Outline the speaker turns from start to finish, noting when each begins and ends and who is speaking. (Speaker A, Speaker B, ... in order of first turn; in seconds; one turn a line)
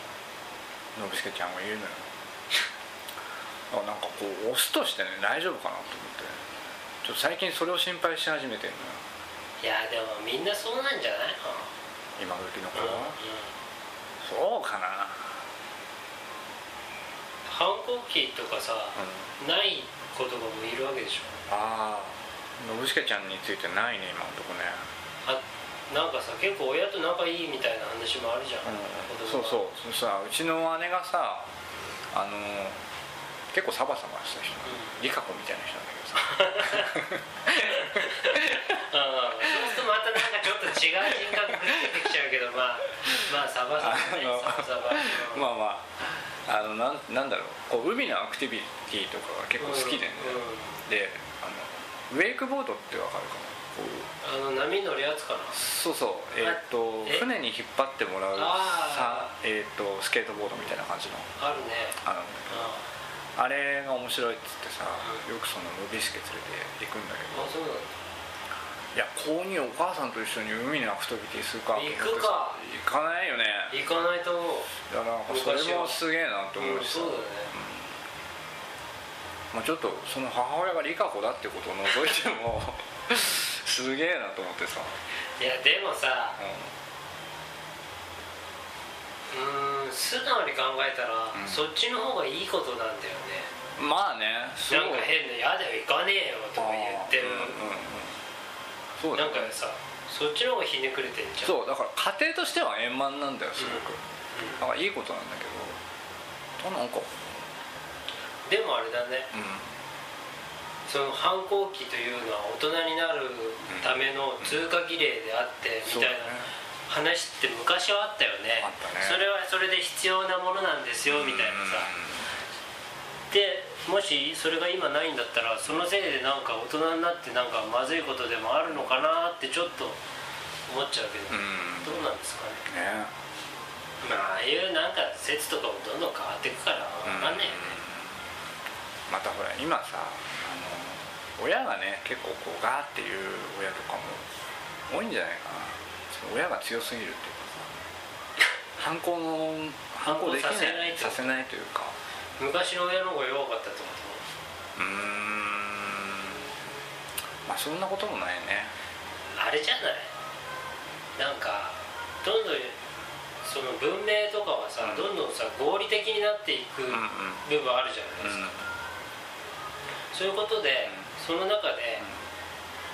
Speaker A: 0.9-2.1
Speaker A: 3.7-6.5
Speaker A: 7.0-9.0
Speaker B: 9.6-11.7
Speaker A: 12.2-13.2
Speaker B: 12.7-13.5
Speaker A: 14.2-15.3
Speaker B: 17.4-21.4
Speaker A: 18.9-19.3
Speaker A: 21.5-24.8
Speaker B: 25.2-29.6
Speaker A: 28.6-31.5
Speaker A: 32.1-32.8
Speaker A: 33.5-38.7
Speaker B: 36.2-37.0
Speaker B: 37.7-45.5
Speaker A: 39.4-39.8
Speaker A: 41.0-41.9
Speaker A: 43.8-54.1
Speaker B: 49.6-50.8
Speaker B: 54.2-55.6
Speaker A: 55.5-62.8
Speaker B: 56.4-57.2
Speaker B: 58.3-59.3
Speaker B: 61.4-62.9
Speaker A: 63.4-67.5
Speaker B: 67.3-68.0
Speaker A: 68.9-73.8
Speaker B: 71.7-72.6
Speaker B: 73.7-74.7
Speaker A: 74.9-78.0
Speaker B: 75.3-76.0
Speaker B: 76.6-77.5
Speaker A: 79.5-85.0
Speaker B: 85.3-86.4
Speaker A: 86.4-86.7
Speaker B: 89.3-93.5
Speaker A: 91.3-91.7
Speaker A: 93.8-95.2
Speaker B: 94.7-97.6
Speaker A: 96.6-98.2
Speaker A: 99.0-99.5
Speaker B: 99.1-101.5
Speaker A: 101.4-104.0
Speaker B: 103.6-104.6
Speaker A: 104.6-105.8
Speaker A: 106.6-107.5
Speaker B: 108.5-109.3
Speaker A: 109.3-109.7
Speaker B: 110.8-121.9
Speaker A: 113.7-114.7
Speaker A: 115.8-116.5
Speaker A: 118.6-119.3
Speaker A: 121.1-122.3
Speaker B: 123.3-130.0
Speaker B: 130.7-132.7
Speaker A: 131.3-132.1
Speaker A: 132.7-133.1
Speaker B: 134.0-137.8
Speaker A: 137.0-138.2
Speaker A: 139.1-144.3
Speaker A: 144.9-147.7
Speaker A: 148.8-151.9
Speaker B: 150.0-151.4
Speaker B: 152.4-154.2
Speaker A: 154.8-156.5
Speaker A: 157.4-158.7
Speaker B: 159.3-160.1
Speaker B: 161.2-162.8
Speaker B: 163.4-168.5
Speaker A: 164.8-165.2
Speaker A: 166.9-167.5
Speaker A: 168.2-168.6
Speaker B: 170.1-172.1